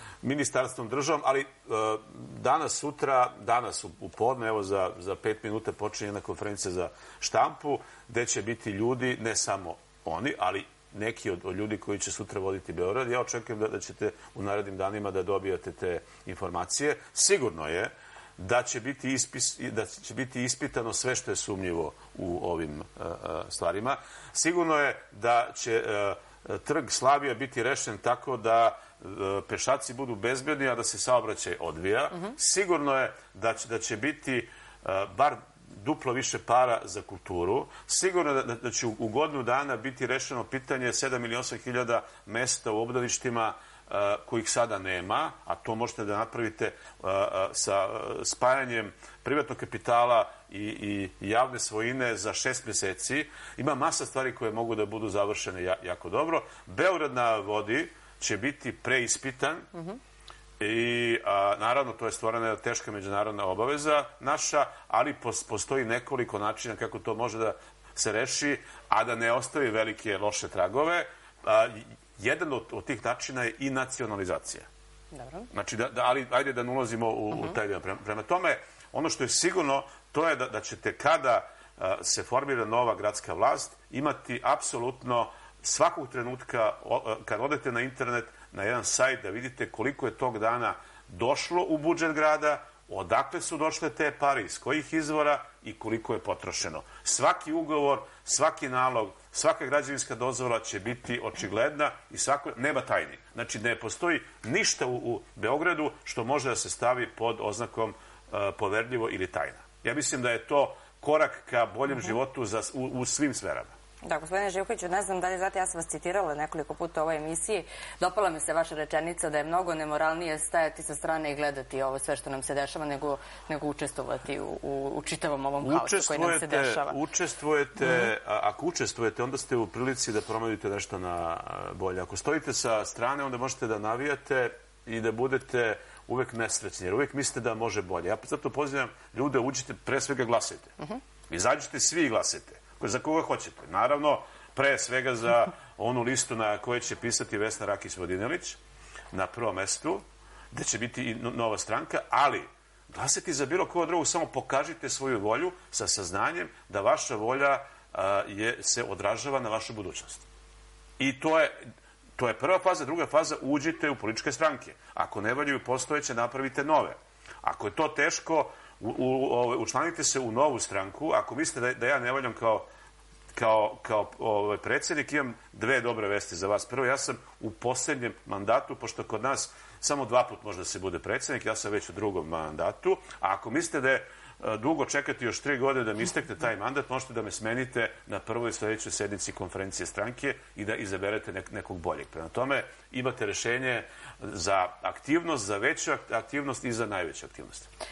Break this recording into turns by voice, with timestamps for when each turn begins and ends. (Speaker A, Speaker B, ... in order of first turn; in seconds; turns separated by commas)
Speaker A: 0.2-59.7, Speaker B: 59.7-60.0, Speaker A: 60.6-74.7, Speaker B: 75.1-75.5, Speaker A: 75.5-113.7, Speaker B: 114.0-127.0, Speaker A: 125.6-140.8, Speaker B: 127.8-128.1, Speaker A: 141.3-148.6, Speaker A: 149.1-160.2, Speaker A: 161.0-161.7, Speaker A: 162.2-172.7, Speaker A: 173.3-197.7